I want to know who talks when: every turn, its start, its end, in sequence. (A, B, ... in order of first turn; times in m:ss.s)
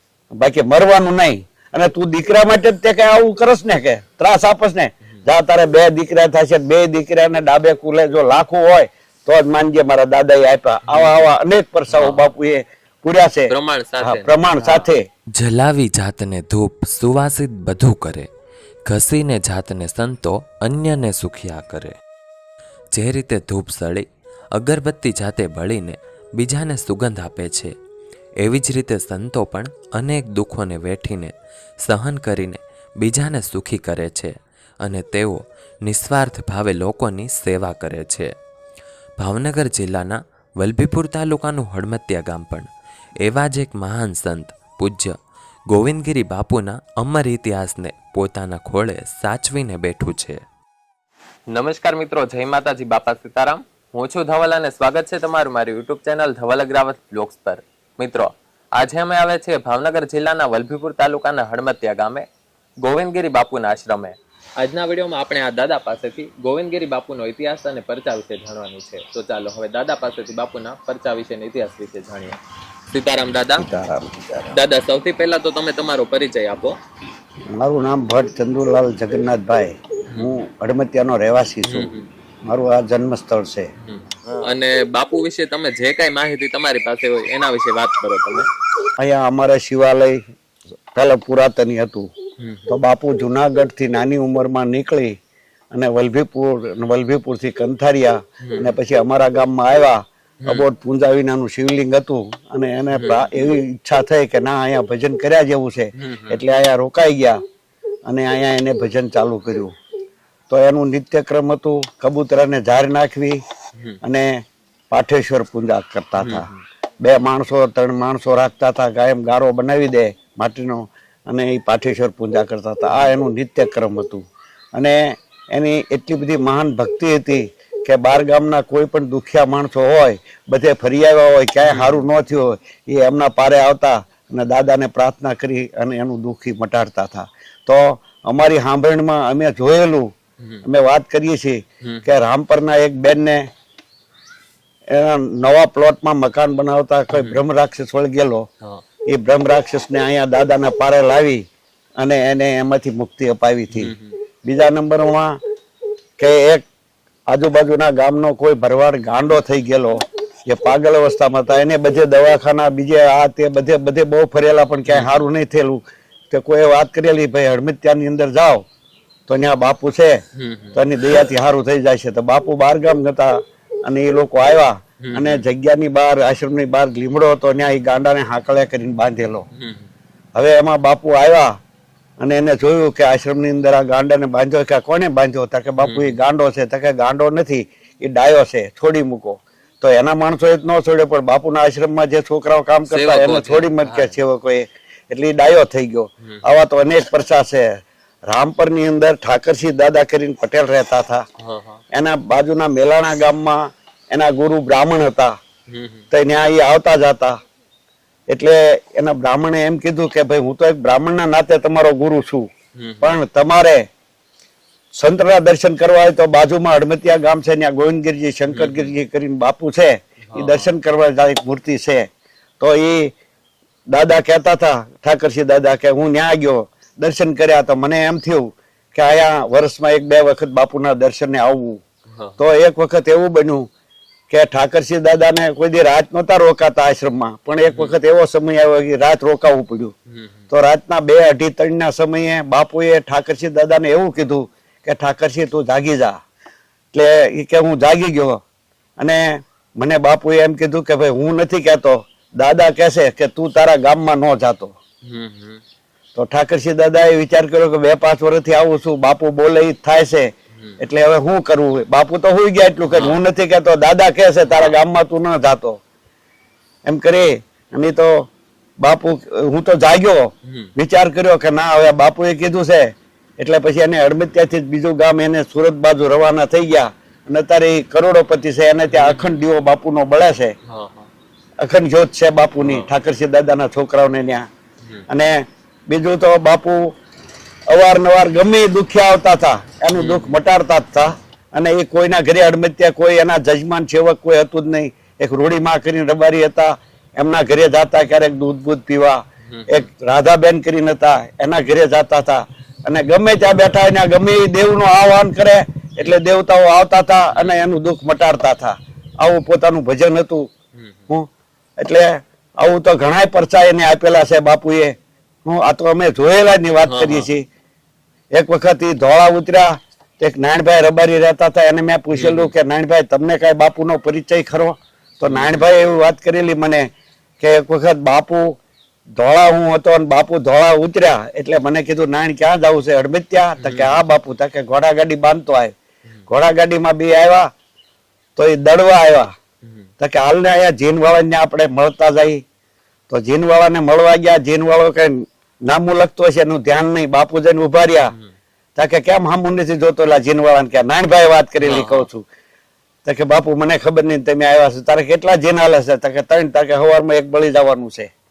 0:00.4-0:15.0 A
0:10.8-0:11.3 B
0:11.9-0:12.3 B
0:13.5-0:14.9 B
0:15.4-0:18.3 C
0:18.9-0:22.0 C
0:22.9-0:27.7 C
0:28.4-0:38.3 C
0:39.2-0:42.7 C
0:43.2-0:45.2 C
0:45.7-0:50.4 C
0:51.5-1:02.3 B
1:02.8-1:12.4 B
1:12.9-1:13.7 B
1:13.6-1:14.6 A
1:14.5-1:16.8 B
1:17.5-1:21.9 A
1:21.6-1:22.1 B
1:22.4-1:23.7 A
1:23.8-1:28.5 B
1:29.0-1:30.2 A
1:30.9-1:32.1 A
1:32.4-1:32.7 B
1:32.7-1:35.2 A
1:35.7-1:47.4 A
1:38.4-1:38.7 B
1:42.9-1:43.5 B
1:45.9-1:46.4 B
1:48.1-1:49.7 A
1:50.5-1:53.4 A
1:54.0-1:56.5 A
1:56.2-1:56.6 B
1:57.0-2:04.2 A
2:02.9-2:03.1 B
2:05.5-2:20.1 A
2:11.6-2:12.0 B
2:20.6-2:23.5 A
2:24.9-2:28.5 A
2:27.1-2:27.4 B
2:29.1-2:31.4 A
2:32.0-2:33.9 A
2:33.7-2:34.1 B
2:34.4-2:35.4 A
2:36.2-2:36.6 A
2:37.3-2:48.6 A
2:44.9-2:45.2 B
2:49.3-2:50.2 A
2:50.4-2:51.2 B
2:50.7-2:59.4 A
2:55.0-2:55.4 B
2:59.5-2:59.9 B
3:00.3-3:01.6 A
3:02.2-3:17.7 A
3:05.8-3:06.2 B
3:12.9-3:14.2 B
3:18.3-3:21.2 A
3:21.4-3:21.8 B
3:21.9-3:25.3 A
3:25.7-3:26.0 B
3:26.1-3:27.4 A
3:28.3-3:32.5 A
3:32.8-3:33.2 B
3:33.0-3:33.8 A
3:34.9-3:42.1 A
3:38.5-3:38.9 B
3:40.3-3:40.7 B
3:42.6-3:43.1 A
3:43.9-3:51.8 A
3:52.1-3:52.4 B
3:52.4-3:53.7 A
3:54.3-3:59.9 A
3:57.7-3:57.9 B
4:00.1-4:00.5 B
4:00.5-4:06.2 A
4:06.9-4:08.4 A
4:09.0-4:14.7 A
4:15.0-4:15.6 B
4:16.1-4:25.8 A
4:20.5-4:20.8 B
4:22.9-4:23.2 B
4:24.5-4:24.7 B
4:26.8-4:28.3 A
4:28.8-4:40.5 A
4:30.4-4:30.7 B
4:38.9-4:39.2 B
4:40.6-4:41.1 B
4:41.6-4:44.5 A
4:42.6-4:42.9 B
4:45.1-4:46.9 A
4:47.7-5:10.5 A
4:49.9-4:50.4 B
4:59.4-4:59.9 B
5:07.3-5:07.7 B
5:11.8-5:17.4 A
5:16.8-5:17.3 B
5:18.3-5:26.9 A
5:22.1-5:22.5 B
5:25.3-5:25.6 B
5:27.4-5:28.6 A
5:29.2-5:35.7 A
5:33.6-5:33.9 B
5:36.3-5:37.5 A
5:38.4-5:39.3 A
5:40.0-5:42.4 A
5:43.1-5:48.1 A
5:48.8-5:52.2 A
5:51.6-5:52.1 B
5:53.0-5:58.1 A